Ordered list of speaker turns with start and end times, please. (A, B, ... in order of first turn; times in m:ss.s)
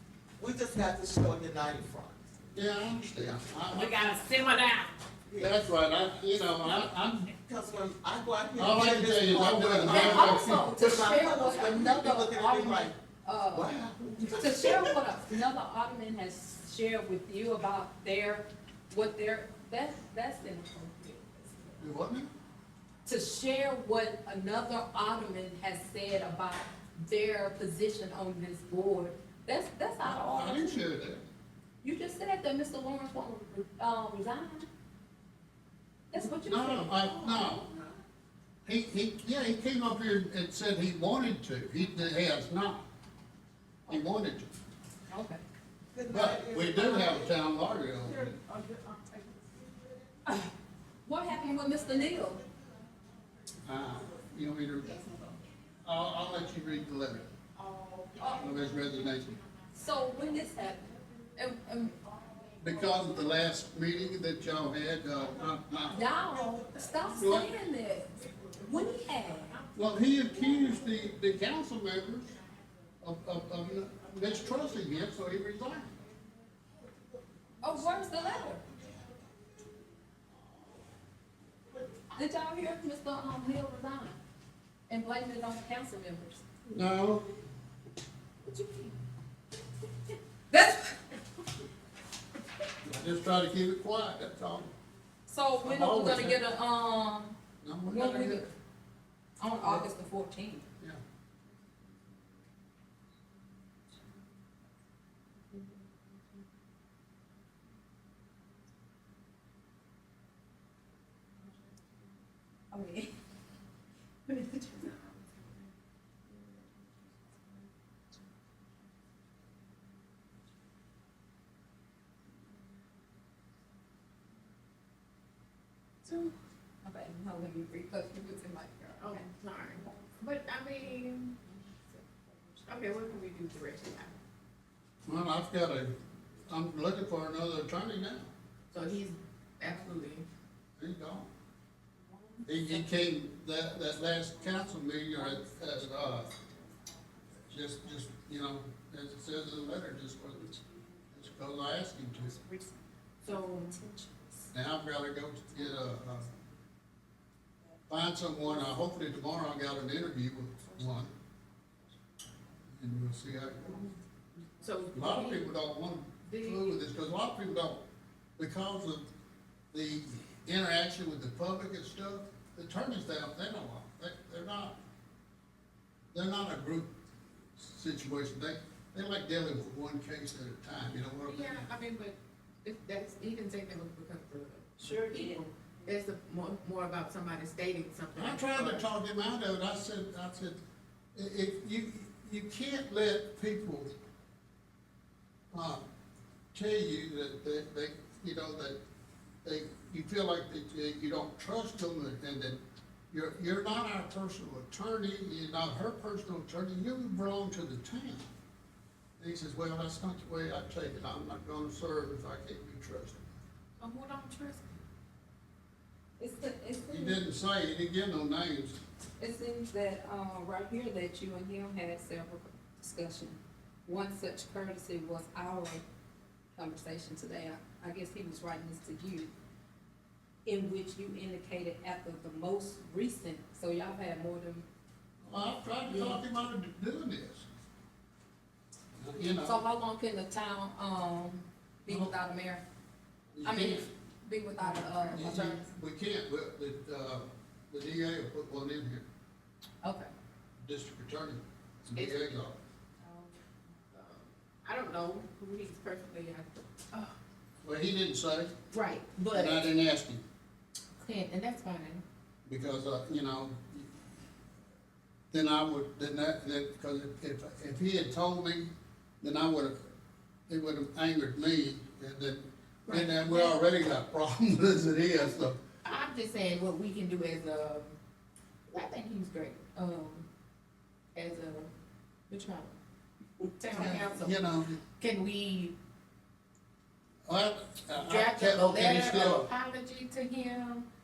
0:00.4-0:02.2 A
0:02.5-0:04.1 B
0:03.8-0:06.0 A
0:05.4-0:07.3 B
0:07.3-0:12.9 A
0:08.6-0:10.6 B
0:09.8-0:13.8 C
0:13.5-0:14.9 A
0:14.3-0:21.8 C
0:21.8-0:22.3 B
0:23.0-0:30.8 C
0:30.0-0:31.2 B
0:31.8-0:34.7 C
0:36.1-0:37.4 C
0:36.2-0:37.6 B
0:37.3-0:37.8 A
0:38.6-0:42.8 B
0:43.9-0:44.5 B
0:45.1-0:45.4 C
0:45.9-0:47.3 A
0:46.1-0:48.4 B
0:48.4-0:49.9 A
0:48.6-0:49.2 D
0:51.0-0:52.4 C
0:53.6-0:55.1 B
0:54.8-0:55.3 D
0:55.8-0:57.3 B
0:57.5-1:01.3 D
0:58.2-0:58.5 C
0:58.3-0:59.4 B
0:59.7-1:00.8 C
1:01.4-1:01.9 C
1:01.9-1:03.3 D
1:02.6-1:06.0 B
1:05.9-1:09.5 C
1:07.2-1:07.5 B
1:09.5-1:11.2 D
1:09.7-1:12.3 B
1:13.0-1:15.9 B
1:17.6-1:18.6 C
1:22.1-1:24.2 C
1:24.9-1:26.4 C
1:26.6-1:27.2 B
1:28.5-1:28.9 C
1:30.5-1:31.0 C
1:32.8-1:34.7 B
1:35.3-1:37.4 C
1:35.6-1:36.4 B
1:37.6-1:38.4 B
1:37.9-1:38.5 C
1:39.4-1:40.6 C
1:39.6-1:39.9 B
1:52.7-1:53.1 C
1:54.2-1:55.1 C
1:56.3-1:56.6 C
2:06.0-2:06.3 D
2:06.8-2:10.1 C
2:09.0-2:11.4 D
2:11.4-2:13.0 C
2:12.7-2:14.1 D
2:15.0-2:15.9 B
2:16.5-2:18.3 B
2:18.7-2:20.3 D
2:20.8-2:21.3 B
2:22.0-2:22.7 C
2:22.4-2:26.3 B
2:24.2-2:26.6 C
2:27.5-2:30.5 B
2:30.4-2:31.2 C
2:31.1-2:32.3 B
2:32.2-2:34.4 C
2:33.2-2:33.7 D
2:34.5-2:36.3 B
2:35.6-2:36.0 C
2:37.9-2:41.1 B
2:40.7-2:41.0 C
2:42.7-2:43.9 B
2:44.6-2:45.4 D
2:44.9-2:47.8 B
2:46.2-2:46.7 D
2:48.4-2:49.0 B
2:49.7-2:54.8 B
2:56.1-2:56.9 B
2:57.6-3:01.7 B
3:01.2-3:08.9 D
3:04.8-3:05.9 C
3:08.1-3:10.6 B
3:11.1-3:13.9 B
3:15.5-3:15.8 B
3:16.5-3:18.8 B
3:19.4-3:22.6 B
3:23.1-3:28.3 B
3:29.2-3:33.2 B
3:33.8-3:34.8 D
3:36.2-3:37.2 C
3:36.9-3:38.8 B
3:39.2-3:45.8 C
3:46.6-3:49.3 C
3:50.4-3:54.7 C
3:55.2-3:57.5 B
3:55.8-3:56.2 C
3:59.0-3:59.6 B
3:59.4-4:02.6 C
4:01.9-4:02.1 B
4:03.3-4:03.9 B
4:03.4-4:05.7 C
4:05.1-4:09.0 B
4:09.8-4:10.1 C
4:10.6-4:12.6 B
4:12.0-4:12.3 D
4:13.0-4:13.4 C
4:13.9-4:17.1 D
4:17.6-4:18.5 B
4:18.7-4:19.7 D
4:19.3-4:20.2 B
4:21.0-4:22.0 D
4:22.4-4:23.9 B
4:25.3-4:28.7 B
4:29.2-4:29.7 B
4:30.5-4:35.6 B
4:32.9-4:33.6 D
4:35.8-4:38.0 D
4:38.7-4:40.3 D
4:41.1-4:41.7 D
4:42.3-4:42.8 D
4:43.6-4:44.4 D
4:43.7-4:44.8 B
4:45.0-4:45.7 D
4:47.2-4:49.5 B
4:48.0-4:50.8 D